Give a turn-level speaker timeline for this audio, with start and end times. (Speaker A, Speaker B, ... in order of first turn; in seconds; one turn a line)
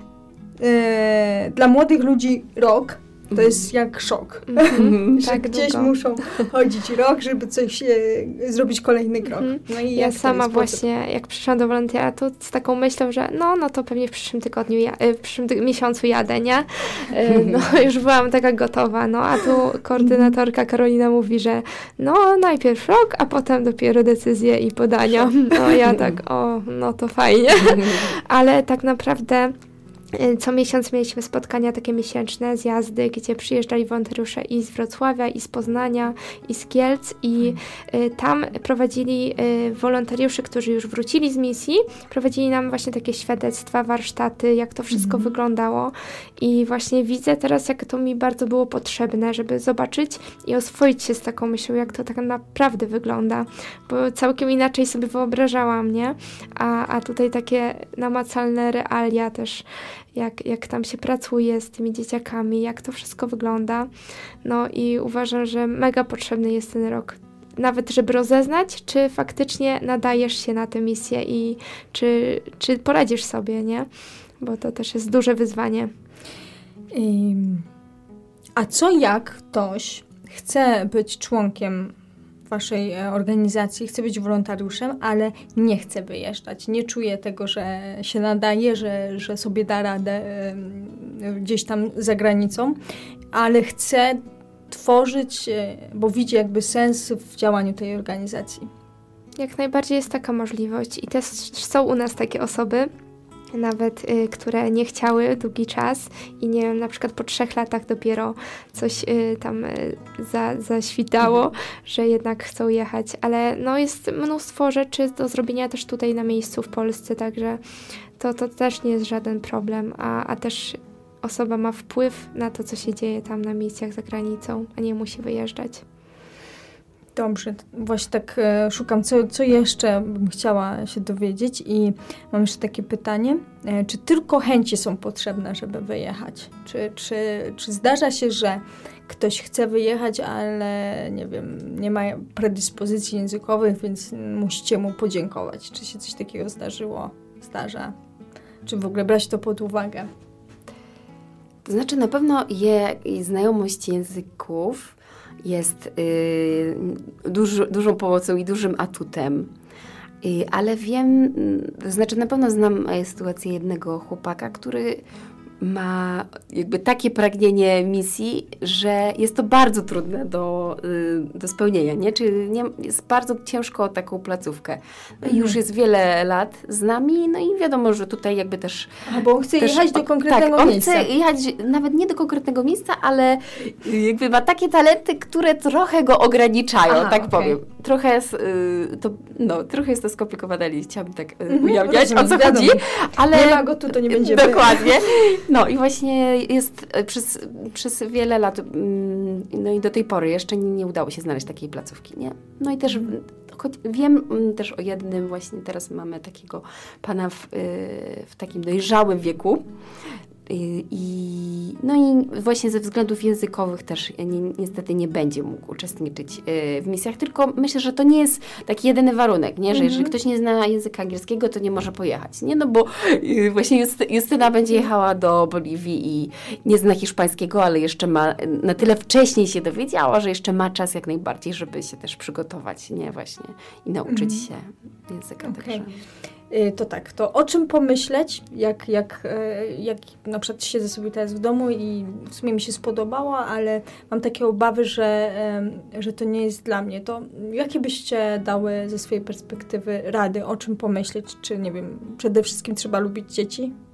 Speaker A: 0.6-10.8
Speaker B: 4.5-5.9
Speaker C: 4.7-5.2
Speaker B: 9.3-29.5
Speaker A: 20.0-20.3
Speaker B: 30.1-63.9
Speaker A: 44.9-45.3
Speaker B: 64.4-73.9
Speaker B: 74.4-75.9
Speaker A: 76.9-77.7
Speaker A: 78.5-81.9
Speaker A: 82.5-92.8
Speaker A: 93.3-98.7
Speaker B: 99.3-102.9
Speaker B: 103.5-117.6
Speaker B: 118.2-125.8
Speaker A: 127.1-147.9
Speaker A: 148.6-150.1
Speaker C: 151.6-159.5
Speaker C: 160.2-165.0
Speaker C: 165.6-179.1
Speaker A: 175.2-175.6
Speaker A: 179.1-181.1
Speaker C: 179.6-209.6
Speaker A: 186.9-187.6
Speaker A: 191.5-195.0
Speaker C: 210.4-236.0
Speaker A: 219.7-220.1
Speaker A: 234.1-234.4
Speaker A: 235.4-235.8
Speaker A: 236.5-253.7